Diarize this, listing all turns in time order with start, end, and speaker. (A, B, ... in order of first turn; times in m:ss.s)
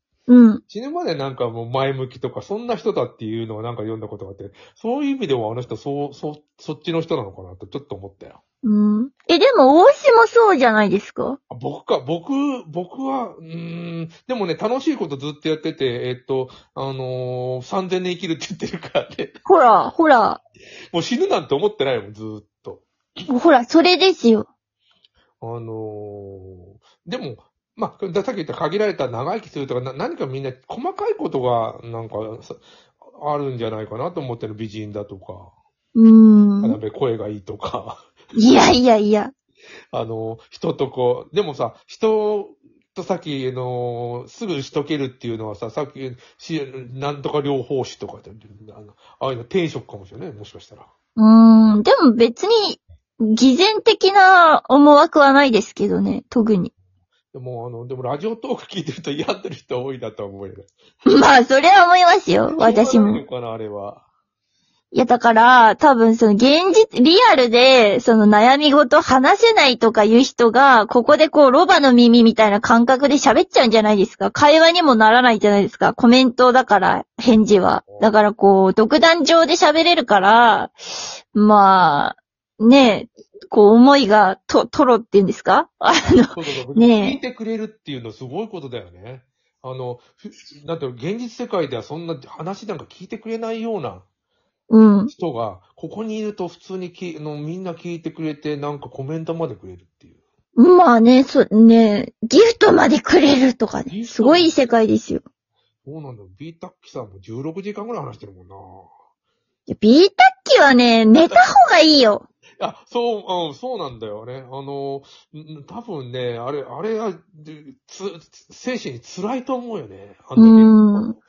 0:00.3-0:00.6 A
0:00.7-0:08.4 B
0:08.6-0:11.4 A
0:11.5-0:19.4 B
0:19.5-0:20.4 A
0:20.9-0:22.9 B
0:23.3-0:24.5 A
0:25.4-0:32.6 B
0:33.2-0:35.5 B
0:36.0-0:36.8 A
0:36.6-0:38.1 B
0:38.4-0:39.3 A
0:39.9-0:50.9 B
0:51.2-0:56.7 A
0:57.3-1:00.7 B
1:01.1-1:03.2 A
1:02.5-1:04.0 B
1:04.9-1:20.7 A
1:17.9-1:18.1 B
1:21.3-1:27.2 A
1:26.3-1:34.0 B
1:34.7-1:35.1 A
1:35.1-1:40.2 B
1:40.6-1:45.2 A
1:43.9-1:44.5 B
1:45.8-1:48.9 B
1:49.7-1:52.2 A
1:52.6-2:01.1 B
2:00.4-2:01.2 A